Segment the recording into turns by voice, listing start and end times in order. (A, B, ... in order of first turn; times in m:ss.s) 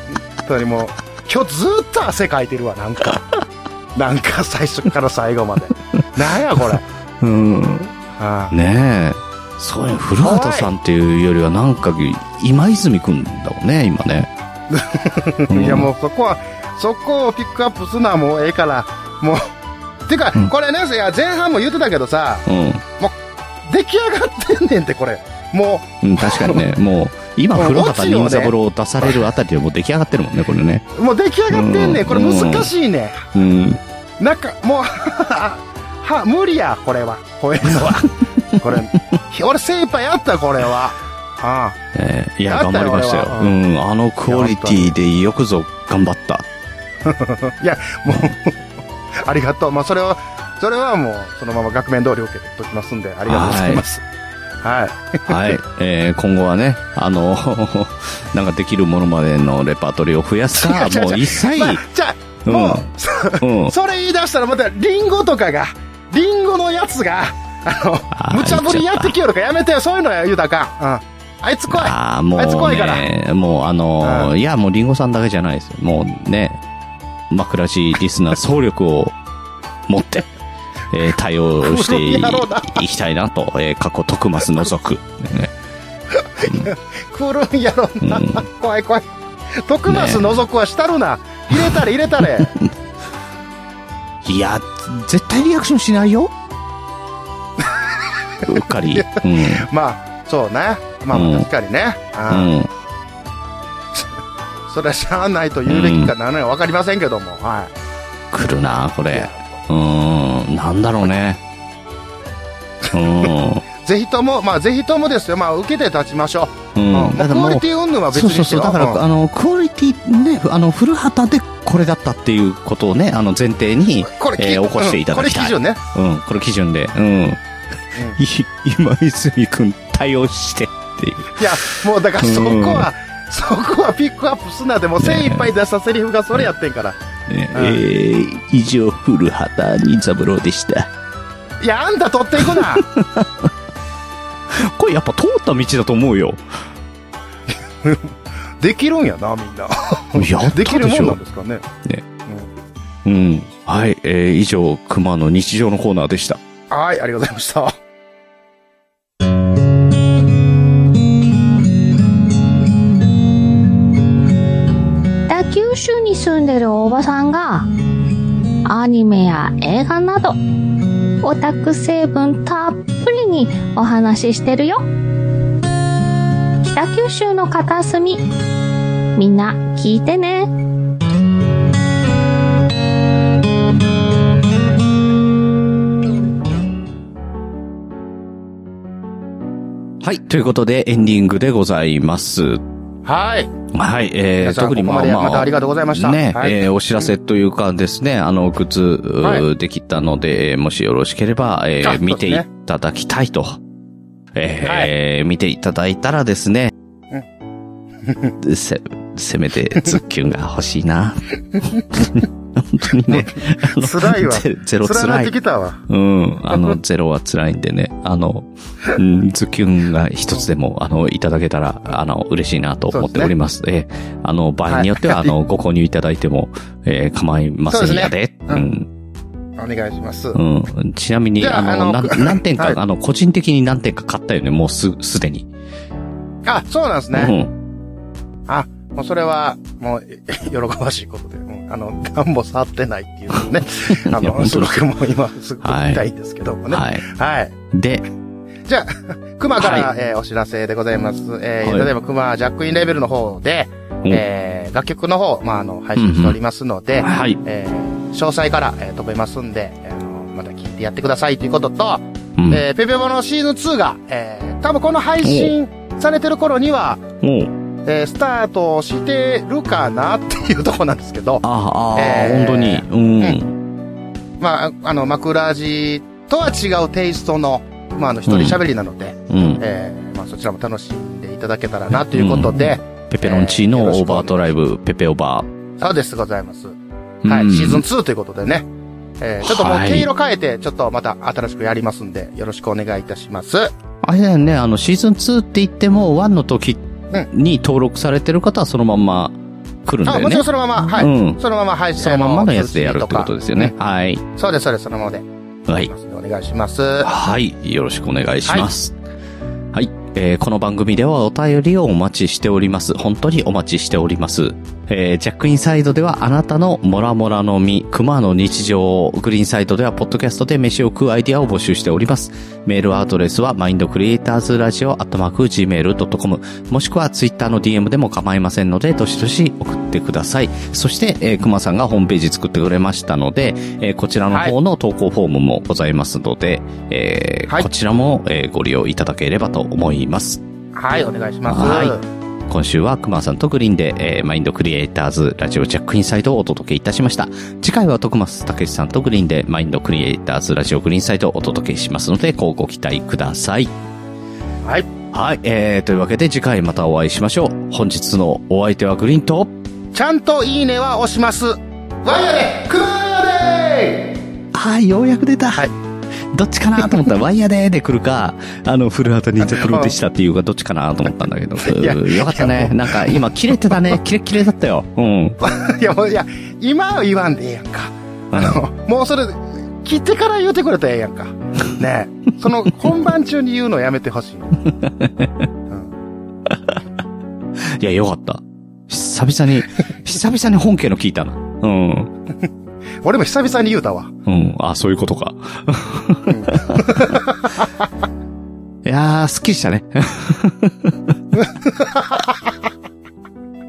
0:00.4-0:03.2 A
0:03.9-0:06.8 A
0:07.2-0:07.9 B
0:08.2-0:08.5 A
0:08.5-0:14.3 B
0:10.2-0:10.7 A
0:14.7-0:19.4 A
0:15.5-0:15.9 B
0:20.1-0:22.4 A
0:22.4-0:22.8 B
0:23.0-0:26.6 A
0:26.0-0:30.8 B
0:27.5-0:29.2 A
0:31.0-0:33.3 A
0:31.5-0:32.7 B
0:33.3-0:33.8 B
0:34.2-0:41.8 A
0:41.9-0:46.4 B
0:42.5-0:43.6 A
0:44.2-0:44.9 A
0:47.0-0:48.6 A
0:49.2-0:54.0 A
0:53.3-0:53.8 B
0:54.6-0:55.6 A
0:55.3-1:01.8 B
1:00.5-1:13.1 A
1:02.4-1:03.7 B
1:08.1-1:09.1 B
1:11.7-1:16.6 B
1:14.0-1:14.3 A
1:17.3-1:19.2 B
1:19.9-1:20.3 B
1:20.9-1:25.5 B
1:21.6-1:22.8 A
1:26.1-1:32.5 A
1:28.0-1:28.4 B
1:29.9-1:30.4 B
1:31.5-1:32.7 B
1:34.2-1:36.3 B
1:37.6-1:37.8 A
1:38.4-1:39.6 B
1:38.5-1:42.5 A
1:41.1-1:41.5 B
1:42.3-1:42.7 B
1:44.7-1:47.7 A
1:45.7-1:46.1 B
1:48.3-1:51.4 B
1:49.1-1:49.4 A
1:52.9-1:53.6 B
1:53.2-1:59.0 A
1:56.7-2:07.4 B
2:04.0-2:05.8 A
2:08.1-2:12.9 B
2:11.4-2:17.0 A
2:15.0-2:15.5 B
2:17.3-2:20.9 B
2:17.5-2:17.8 A
2:21.6-2:22.8 A
2:22.8-2:23.3 B
2:24.5-2:26.4 B
2:27.8-2:31.6 A
2:30.1-2:31.2 B
2:33.0-2:36.4 B
2:36.7-2:37.7 A
2:45.3-2:47.7 C
2:48.6-2:50.4 C
2:51.2-2:54.9 C
2:56.6-2:58.2 C
2:59.1-3:00.5 C
3:10.0-3:12.6 B
3:13.0-3:13.5 A
3:13.7-3:23.6 B
3:14.4-3:17.1 A
3:21.8-3:22.4 A
3:24.4-3:26.7 B
3:24.6-3:24.9 A
3:28.0-3:28.3 A
3:28.4-3:35.3 B
3:33.1-3:35.8 A
3:35.9-3:48.9 B
3:36.5-3:36.8 A
3:42.9-3:43.3 A
3:44.7-3:45.3 A
3:47.7-3:48.7 A
3:49.6-3:50.4 A
3:50.3-3:55.5 B
3:51.4-3:52.8 A
3:56.4-3:57.3 A
3:57.1-3:57.5 B
3:58.5-4:07.5 A
4:03.9-4:04.8 B
4:05.6-4:06.0 B
4:06.7-4:07.1 B
4:07.7-4:08.0 B
4:08.6-4:27.0 A
4:09.6-4:09.9 B
4:16.0-4:16.4 B
4:17.0-4:17.4 B
4:22.4-4:22.6 B
4:25.2-4:25.5 B
4:27.2-4:27.5 B
4:27.8-4:31.4 A
4:31.4-4:33.6 B
4:32.0-4:33.4 A
4:34.4-4:44.4 A
4:38.3-4:38.6 B
4:39.3-4:39.6 B
4:42.0-4:45.5 B
4:45.8-4:46.8 A
4:47.2-4:47.8 B
4:47.3-4:48.7 A
4:49.2-4:53.7 A
4:49.4-4:50.1 B
4:54.0-5:01.4 B
5:00.0-5:03.7 A
5:02.0-5:04.2 B
5:04.3-5:05.2 A
5:05.7-5:05.9 B
5:05.8-5:07.1 A
5:07.0-5:08.9 B
5:09.7-5:40.4 B
5:40.7-5:42.0 A
5:41.5-5:42.0 B
5:42.5-5:53.7 B
5:54.6-5:54.9 A
5:55.1-5:59.5 B
5:59.9-6:04.1 A
6:04.5-6:05.7 B
6:06.3-6:15.4 B
6:06.8-6:07.1 A
6:09.4-6:09.9 A
6:11.6-6:13.8 A
6:15.4-6:24.6 A
6:18.3-6:18.6 B
6:24.7-6:25.5 B
6:26.5-6:26.8 B
6:27.7-6:32.1 B
6:33.0-6:34.1 A
6:34.2-6:37.1 B
6:36.3-6:37.7 A
6:38.8-6:41.1 B
6:41.3-6:42.5 A